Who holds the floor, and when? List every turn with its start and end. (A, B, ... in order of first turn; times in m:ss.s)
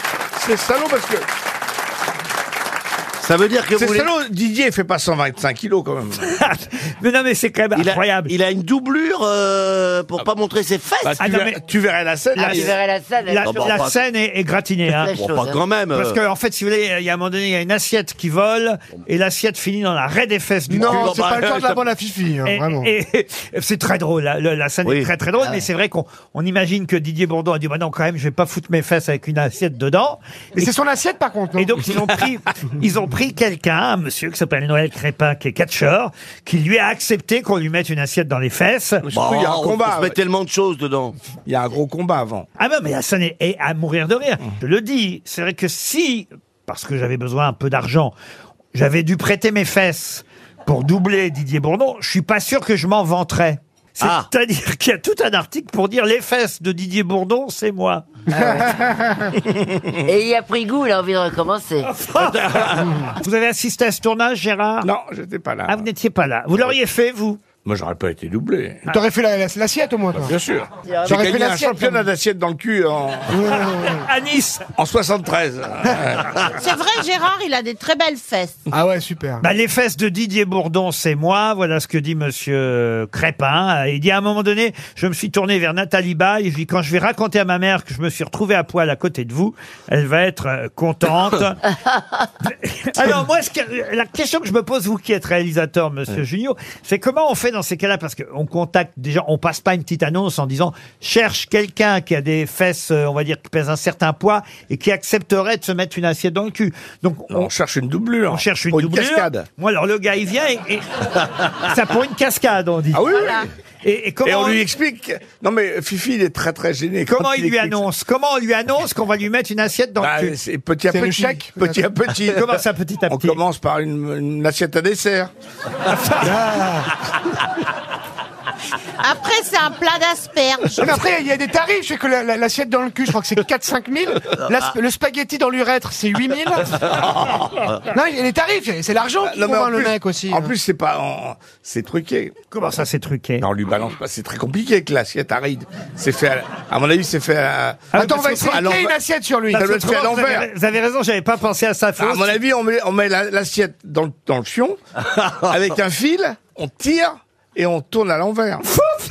0:00.4-0:01.3 A
0:03.2-0:04.1 B
0:03.8-0:06.3 A
0:06.2-0:08.4 C
0:07.8-0:11.2 B
0:11.0-0:12.7 A
0:11.2-0:11.6 C
0:12.4-0:12.7 C
0:12.5-0:13.7 D
0:13.3-0:15.1 C
0:13.4-0:14.0 B
0:14.9-0:16.2 B
0:15.0-0:15.6 D
0:15.9-0:21.2 C
0:20.7-0:22.9 E
0:20.8-0:21.8 B
0:22.4-0:30.8 C
0:24.8-0:25.1 B
0:30.6-0:31.8 E
0:31.6-0:39.0 C
0:39.0-0:40.2 A
0:39.1-0:41.2 B
0:41.4-0:42.5 A
0:42.6-0:48.2 C
0:48.7-0:58.2 C
0:54.0-0:54.3 B
0:58.3-0:58.8 D
0:59.5-0:59.8 A
1:00.1-1:01.9 D
1:01.8-1:04.9 C
1:02.1-1:03.1 B
1:04.8-1:05.9 A
1:05.7-1:07.4 C
1:07.6-1:08.9 A
1:08.9-1:10.4 E
1:10.2-1:13.5 A
1:11.1-1:12.1 E
1:13.3-1:14.1 E
1:13.7-1:14.7 C
1:14.8-1:16.5 A
1:16.5-1:18.6 F
1:18.7-1:19.5 E
1:19.4-1:31.7 C
1:32.4-1:47.5 C
1:47.3-1:49.5 A
1:48.3-1:53.2 C
1:52.9-1:53.5 A
1:53.2-1:53.5 F
1:53.8-1:54.6 C
1:54.2-1:57.8 A
1:57.1-2:00.4 C
2:00.0-2:05.3 A
2:00.9-2:01.9 E
2:02.2-2:03.4 C
2:06.2-2:07.0 E
2:09.0-2:10.9 F
2:10.8-2:20.5 E
2:19.2-2:22.3 A
2:22.5-2:23.5 C
2:23.4-2:29.0 A
2:27.9-2:28.7 C
2:28.0-2:29.6 E
2:29.5-2:30.5 A
2:29.5-2:32.4 C
2:32.0-2:34.8 A
2:35.3-2:38.7 A